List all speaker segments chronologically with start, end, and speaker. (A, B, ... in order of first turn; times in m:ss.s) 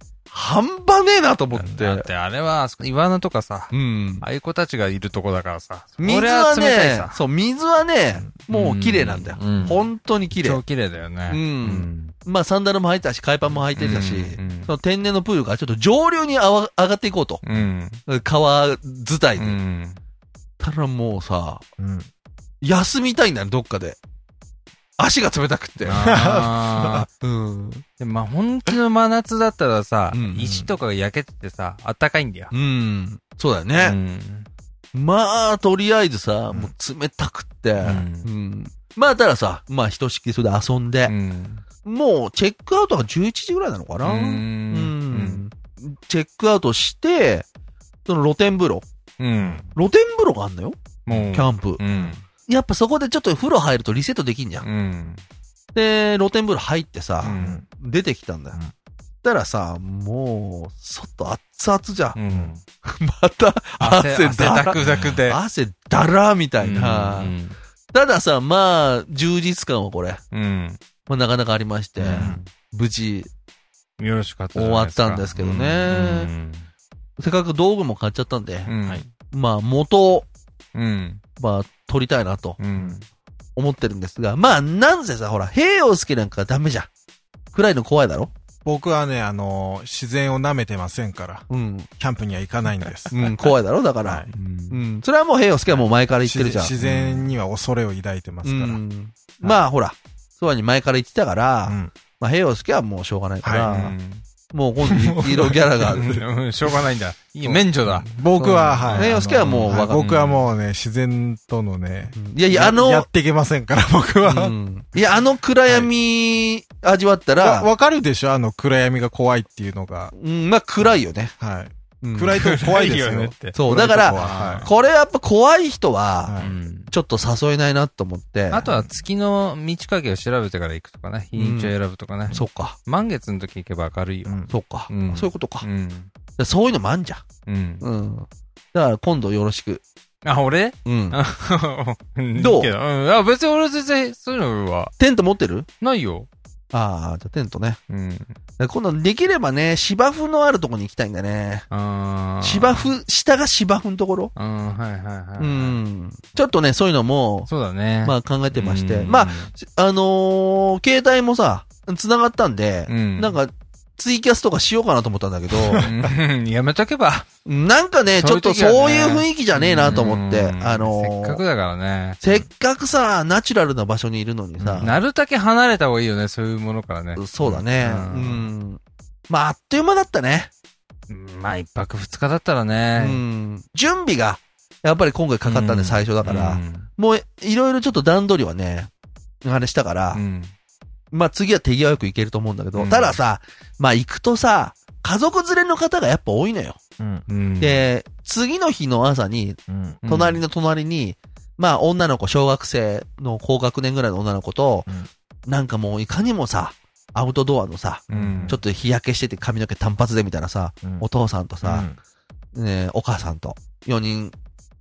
0:00.3-0:02.1 A
0:01.6-0:07.2 B
0:03.7-0:04.2 A
0:06.0-0:10.6 A
0:08.5-0:12.1 B
0:11.3-0:17.4 A
0:13.8-0:14.7 B
0:17.4-0:18.0 B
0:18.1-0:19.6 A
0:19.4-0:20.0 B
0:20.6-0:21.6 A
0:21.8-0:22.1 C
0:22.6-0:24.0 A
0:25.0-0:26.0 A
0:25.8-0:27.1 B
0:26.0-0:27.1 C
0:27.2-0:27.8 A
0:28.0-0:32.5 B
0:30.1-0:30.4 A
0:30.4-0:30.7 C
0:32.5-0:34.0 A
0:33.8-0:34.5 B
0:34.9-0:41.1 A
0:37.8-0:38.3 B
0:41.1-0:41.6 B
0:41.8-0:47.4 A
0:44.0-0:45.4 B
0:48.1-0:48.9 A
0:49.2-0:49.7 B
0:49.8-0:50.8 A
0:51.1-0:52.2 B
0:51.1-0:52.1 C
0:51.3-0:51.8 A
0:52.5-0:54.6 A
0:54.6-0:55.2 B
0:55.8-0:58.6 A
0:57.2-0:57.6 B
0:57.3-0:57.6 C
0:59.2-1:02.2 A
1:02.2-1:02.6 B
1:02.3-1:02.6 C
1:02.8-1:07.3 A
1:03.8-1:05.4 B
1:06.6-1:07.6 B
1:07.9-1:10.2 A
1:10.3-1:10.8 B
1:11.1-1:13.3 A
1:12.0-1:12.5 B
1:12.1-1:12.4 C
1:14.0-1:16.7 B
1:14.6-1:16.3 A
1:17.2-1:18.7 A
1:18.7-1:19.1 B
1:19.3-1:20.3 A
1:20.8-1:21.2 B
1:21.4-1:22.6 A
1:22.6-1:23.0 B
1:23.6-1:26.9 A
1:27.5-1:28.3 A
1:28.6-1:31.4 C
1:31.5-1:31.9 A
1:32.0-1:33.3 C
1:33.1-1:36.7 A
1:34.3-1:34.8 B
1:36.2-1:38.8 C
1:36.8-1:37.3 B
1:38.4-1:43.9 A
1:41.6-1:41.9 C
1:43.4-1:43.7 C
1:43.6-1:44.2 B
1:44.5-1:46.2 A
1:44.8-1:45.9 C
1:45.9-1:48.1 B
1:47.4-1:54.6 C
1:48.4-1:50.1 A
1:48.6-1:50.5 B
1:52.2-1:53.1 A
1:54.2-1:57.7 A
1:57.4-2:00.1 C
2:00.1-2:01.3 A
2:01.4-2:04.7 C
2:02.0-2:02.4 A
2:02.3-2:03.6 B
2:03.6-2:06.4 A
2:04.1-2:04.7 B
2:06.2-2:06.6 C
2:06.4-2:06.9 B
2:06.9-2:08.8 A
2:08.5-2:16.1 B
2:11.4-2:11.7 A
2:12.3-2:12.8 A
2:14.3-2:14.5 C
2:14.5-2:15.6 A
2:16.4-2:17.2 A
2:17.4-2:17.8 B
2:17.8-2:19.8 A
2:20.2-2:24.9 B
2:20.8-2:21.2 A
2:22.3-2:22.7 A
2:25.0-2:25.7 A
2:25.8-2:26.3 B
2:26.7-2:27.8 A
2:27.9-2:28.4 B
2:28.6-2:31.6 A
2:31.7-2:32.9 B
2:32.4-2:34.3 A
2:34.4-2:35.8 B
2:35.4-2:37.5 A
2:37.5-2:39.5 B
2:38.0-2:45.9 A
2:42.9-2:43.4 B
2:45.6-2:46.1 C
2:45.8-2:47.3 B
2:47.4-2:51.4 A
2:48.2-2:52.2 B
2:52.2-2:54.9 A
2:54.8-2:58.4 B
2:57.2-3:00.5 A
3:01.1-3:03.2 B
3:03.0-3:08.9 A
3:05.4-3:06.9 B
3:09.4-3:10.2 A
3:10.1-3:10.5 B
3:11.1-3:16.8 A
3:12.8-3:13.2 B
3:17.0-3:17.2 C
3:17.3-3:17.8 B
3:17.6-3:24.9 A
3:19.7-3:20.0 C
3:20.0-3:20.4 B
3:25.5-3:31.9 A
3:28.1-3:28.6 B
3:28.1-3:28.6 C
3:31.6-3:32.0 C
3:32.6-3:34.4 A